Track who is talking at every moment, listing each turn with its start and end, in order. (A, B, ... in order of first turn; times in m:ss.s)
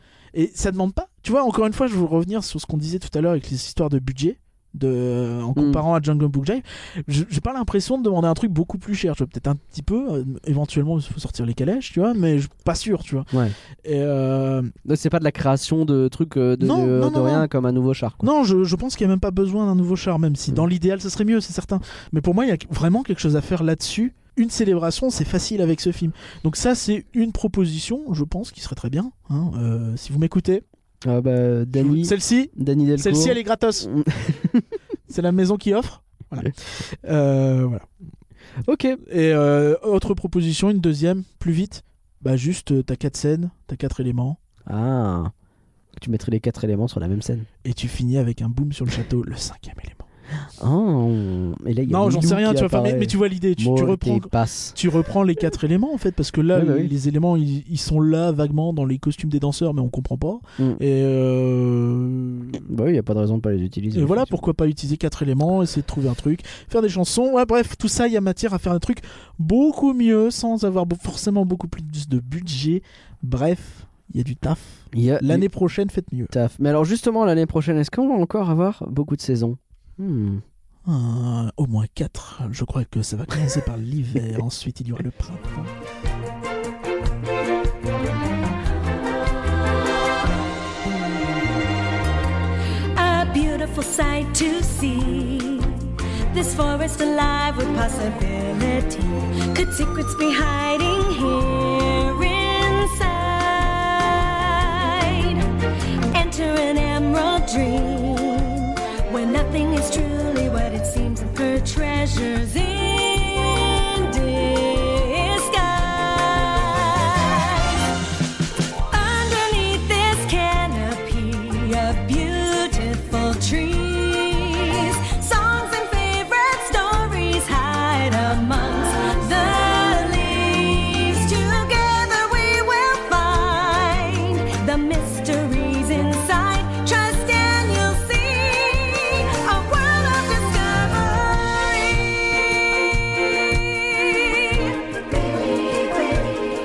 0:00.3-0:13.3 A
0:05.5-0:05.8 B
0:13.8-0:14.7 A
0:14.8-0:18.3 B
0:16.6-0:17.5 A
0:18.2-0:30.6 A
0:31.0-0:34.6 B
0:31.7-0:33.9 A
0:35.1-0:37.9 A
0:38.6-0:39.0 B
0:39.0-0:44.4 A
0:44.7-0:45.3 B
0:46.0-0:47.5 B
0:47.6-0:50.0 A
0:50.6-0:54.8 B
0:51.9-1:02.6 A
0:56.5-0:56.9 B
1:02.6-1:04.4 B
1:03.9-1:16.3 A
1:14.9-1:15.5 B
1:16.3-1:20.4 B
1:20.8-1:25.7 A
1:32.9-1:45.5 C
1:46.1-1:58.0 C
1:58.9-2:26.3 C